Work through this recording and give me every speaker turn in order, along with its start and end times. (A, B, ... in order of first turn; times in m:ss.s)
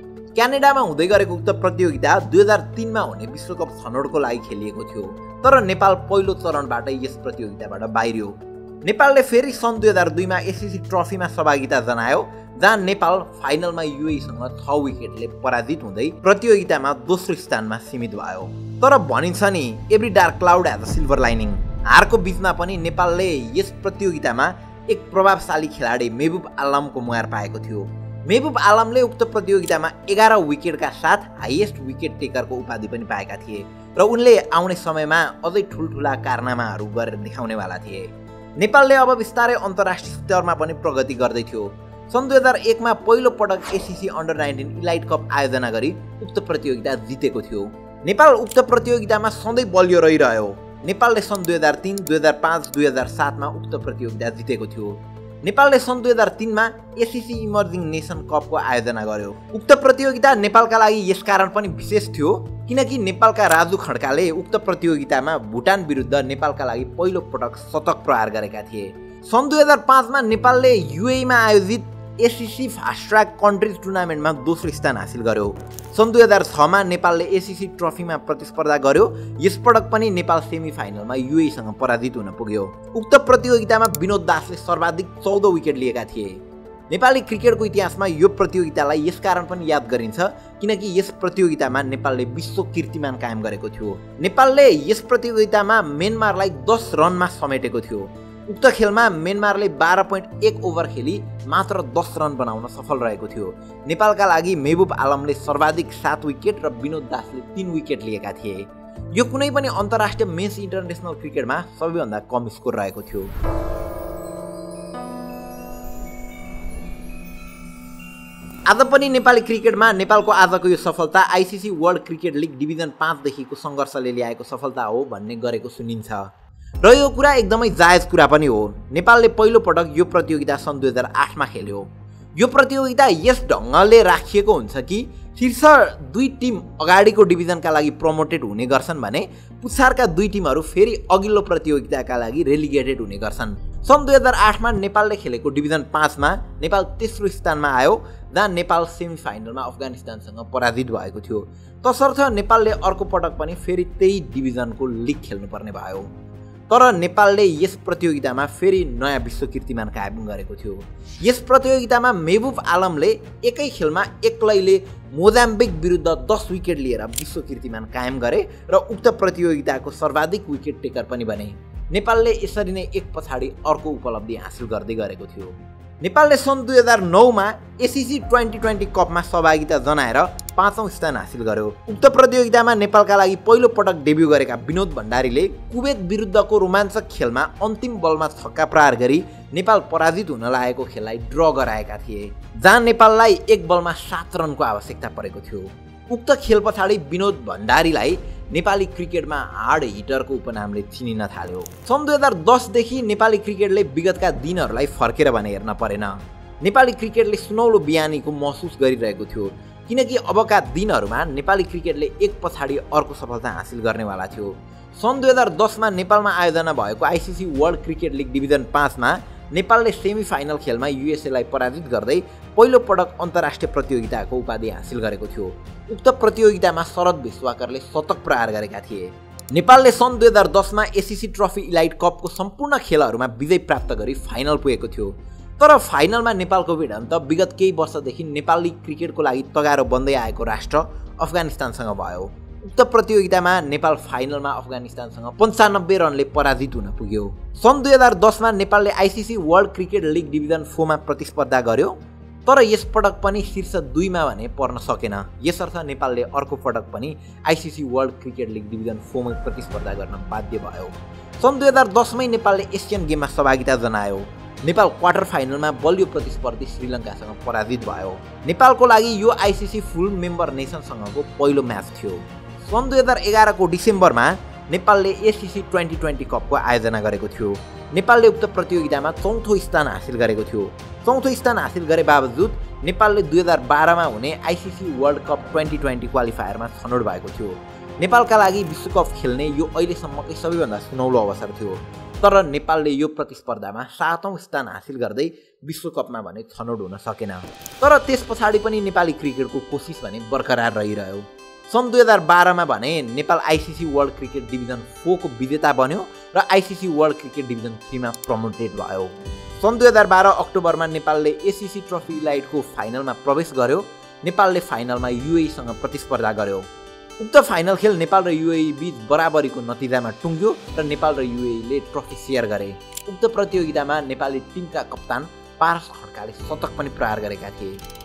0:00.4-1:53.3 A
1:58.7-2:06.3 A
2:06.8-2:36.1 A
2:36.7-5:16.6 A
5:17.2-5:27.8 A